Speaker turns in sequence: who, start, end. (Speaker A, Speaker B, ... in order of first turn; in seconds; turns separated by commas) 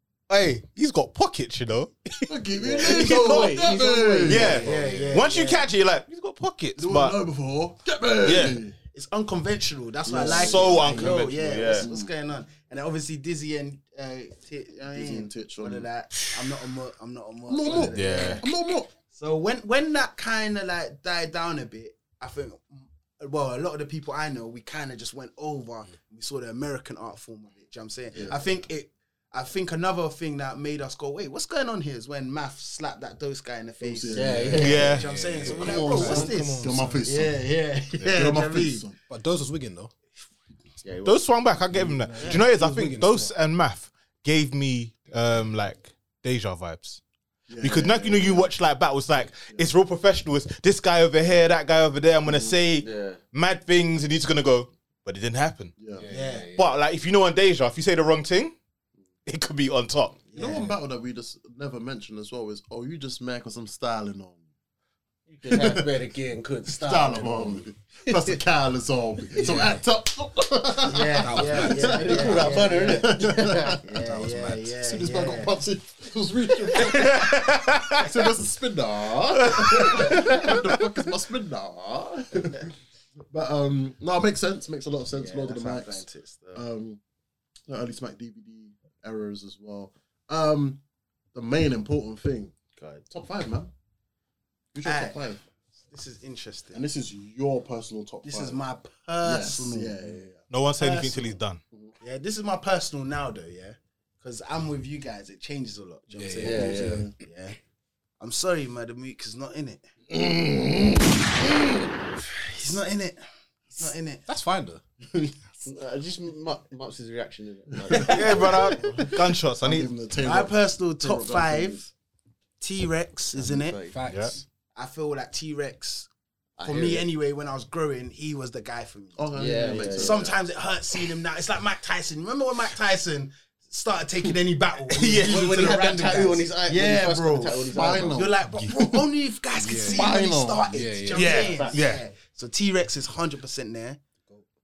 Speaker A: 0.3-2.3, Speaker B: 2.3-4.6, Speaker C: 2.6-4.7, Speaker A: 4.2-7.2, Speaker D: 4.3-5.7, Speaker E: 4.6-5.2, Speaker B: 6.8-8.8, Speaker A: 8.2-8.6, Speaker D: 8.9-18.4, Speaker B: 10.1-12.1, Speaker A: 10.2-11.9, Speaker B: 14.9-15.9, Speaker B: 17.5-18.9, Speaker A: 17.9-18.4, Speaker D: 19.1-38.9, Speaker B: 28.1-28.4, Speaker B: 33.8-34.9, Speaker C: 34.1-34.9, Speaker A: 34.5-35.1, Speaker E: 34.6-37.0, Speaker B: 35.4-39.0, Speaker E: 39.1-39.9, Speaker C: 40.8-41.4, Speaker A: 41.0-47.0, Speaker E: 41.7-43.3, Speaker B: 47.5-48.5, Speaker A: 47.6-55.8, Speaker B: 49.2-49.7, Speaker B: 52.3-52.6, Speaker C: 52.8-53.2, Speaker B: 55.8-56.1, Speaker E: 56.0-56.7, Speaker D: 56.1-56.5, Speaker A: 56.5-58.5, Speaker A: 59.2-60.3, Speaker D: 60.3-60.7, Speaker B: 60.3-64.4, Speaker E: 60.4-60.7, Speaker C: 65.3-68.4, Speaker B: 65.5-65.9, Speaker B: 66.7-73.8, Speaker E: 69.3-69.8, Speaker D: 70.8-75.5, Speaker E: 71.2-72.5, Speaker C: 71.6-73.8, Speaker E: 74.0-74.7, Speaker B: 74.8-82.7, Speaker A: 76.9-78.1, Speaker A: 79.5-80.1, Speaker B: 83.3-87.0, Speaker D: 85.1-86.7, Speaker B: 87.7-90.8, Speaker B: 91.3-93.7, Speaker B: 94.7-95.4, Speaker D: 94.8-95.2, Speaker D: 95.9-96.8, Speaker B: 96.7-98.6, Speaker D: 98.2-100.0, Speaker B: 99.2-100.4, Speaker A: 100.5-101.6, Speaker D: 100.8-101.3, Speaker D: 102.0-107.6, Speaker E: 106.1-107.1, Speaker C: 106.4-107.0, Speaker B: 106.4-107.1, Speaker D: 108.2-109.8, Speaker B: 110.1-111.7, Speaker D: 112.4-113.2, Speaker D: 113.7-114.2, Speaker E: 114.3-114.8, Speaker B: 115.0-115.7, Speaker C: 115.7-118.8, Speaker B: 117.8-121.9, Speaker A: 118.0-119.9, Speaker D: 120.2-121.9, Speaker D: 122.6-123.8, Speaker C: 123.3-124.0, Speaker E: 123.9-124.4, Speaker A: 124.1-124.4, Speaker D: 124.8-126.1, Speaker C: 126.6-127.1, Speaker D: 126.6-144.0, Speaker B: 129.2-130.4, Speaker C: 129.4-130.3, Speaker A: 134.9-135.7, Speaker C: 135.3-138.2, Speaker B: 137.7-139.0, Speaker E: 139.6-140.2, Speaker B: 139.7-140.9, Speaker E: 140.7-141.4, Speaker A: 141.1-142.0, Speaker C: 141.3-141.8